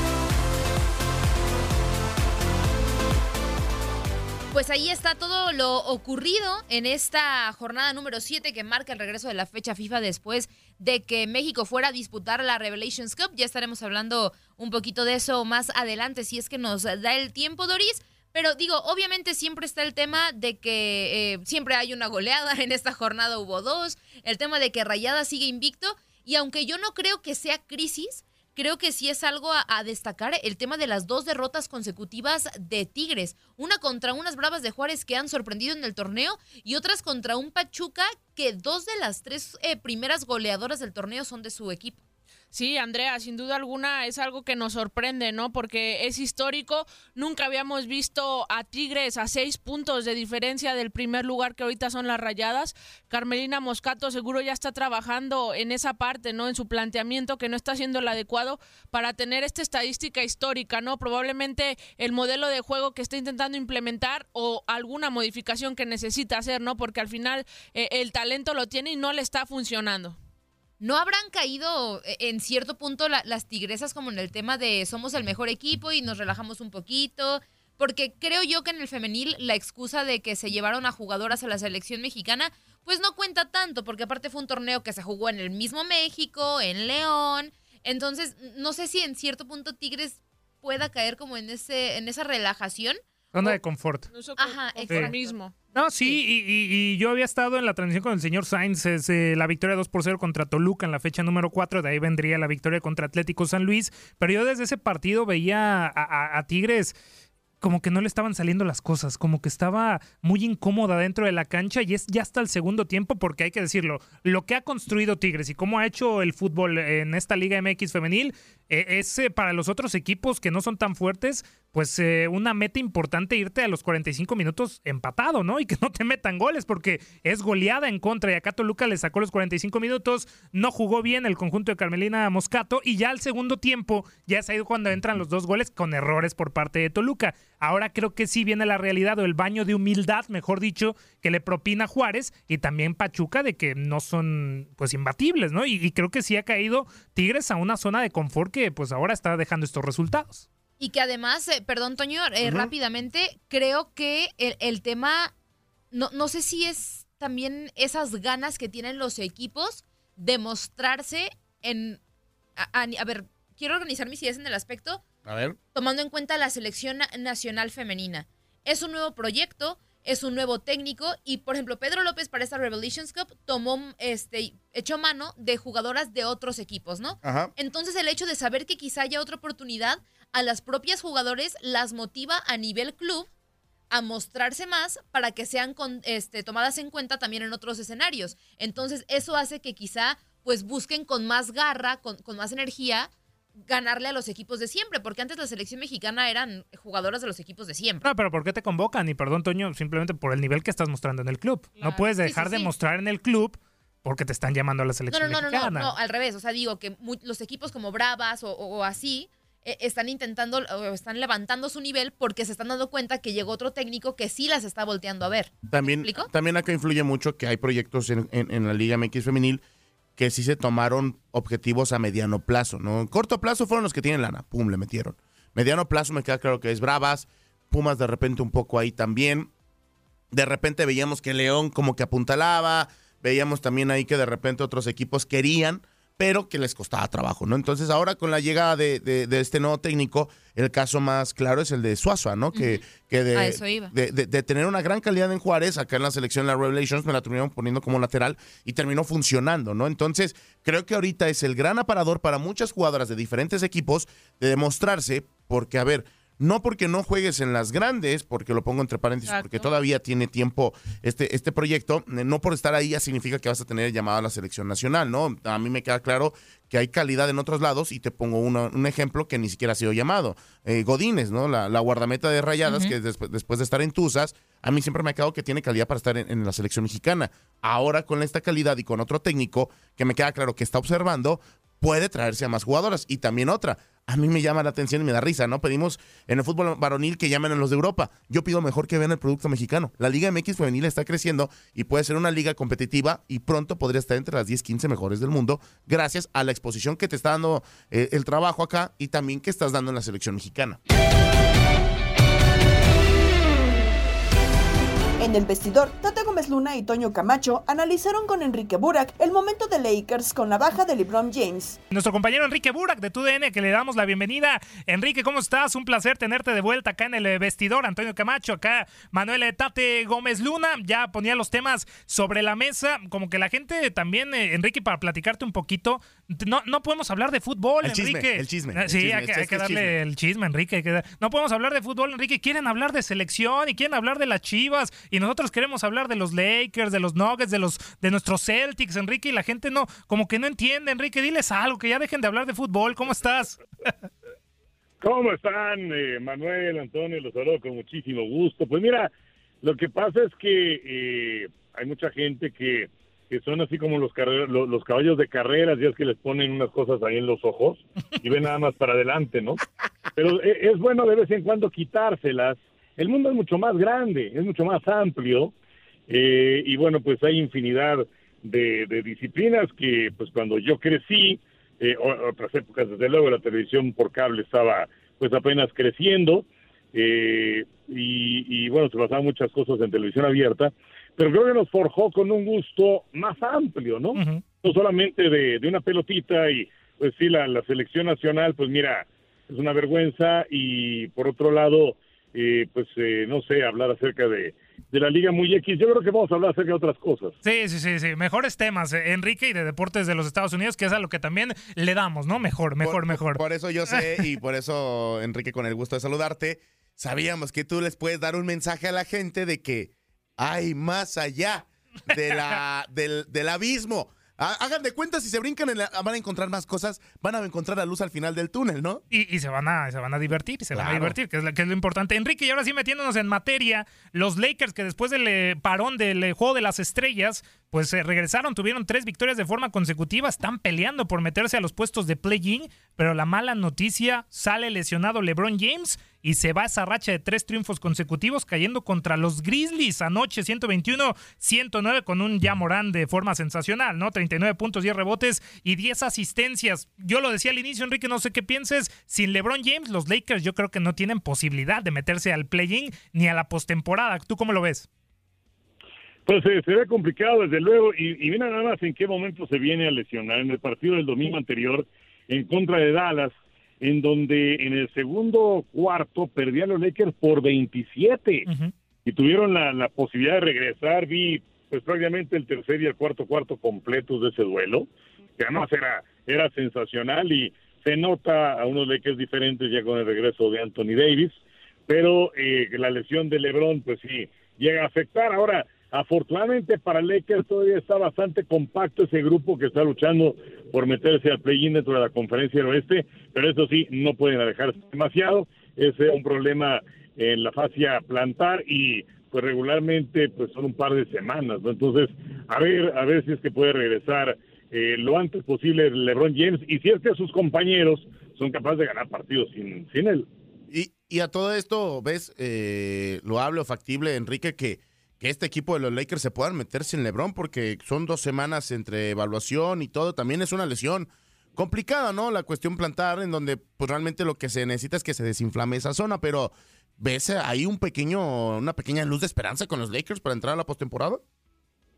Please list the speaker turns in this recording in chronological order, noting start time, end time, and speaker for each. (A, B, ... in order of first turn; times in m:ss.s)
0:04.5-0:42.0 A
0:42.5-1:10.2 B
1:10.8-1:33.0 A
1:33.3-1:34.1 C
1:34.1-1:36.2 B
1:34.4-1:35.1 A
1:34.9-1:35.1 C
1:35.7-1:46.9 C
1:47.6-2:30.4 C
2:30.8-2:35.3 A
2:32.4-2:32.7 D
2:35.9-2:42.0 A
2:42.6-2:45.0 A
2:45.2-2:45.6 D
2:45.7-3:03.3 A
2:57.2-2:57.5 D
3:03.9-3:13.1 A
3:13.6-3:18.0 A
3:18.0-3:25.9 C
3:22.2-3:22.7 A
3:25.1-3:36.3 A
3:35.7-3:39.6 D
3:40.2-3:49.5 D
3:50.3-5:00.8 D
4:02.5-4:02.8 A
4:03.3-4:03.9 A
4:19.3-4:19.6 B
4:32.6-4:32.9 A
5:05.2-5:11.8 E
5:11.9-5:43.6 C
5:27.8-5:30.0 D
5:45.0-5:49.1 F
5:49.6-5:59.6 F
6:00.2-6:05.5 F
6:06.1-6:16.4 F
6:16.9-6:24.1 F
6:24.1-6:24.4 C
6:24.6-6:37.3 F
6:37.4-6:44.2 C
6:42.8-6:59.0 D
6:59.1-7:34.9 C
7:00.7-7:01.2 D
7:36.3-7:48.4 F
7:48.5-7:48.7 C
7:49.0-7:54.8 F
7:55.4-8:01.3 F
8:01.9-8:30.2 F
8:30.7-8:51.2 D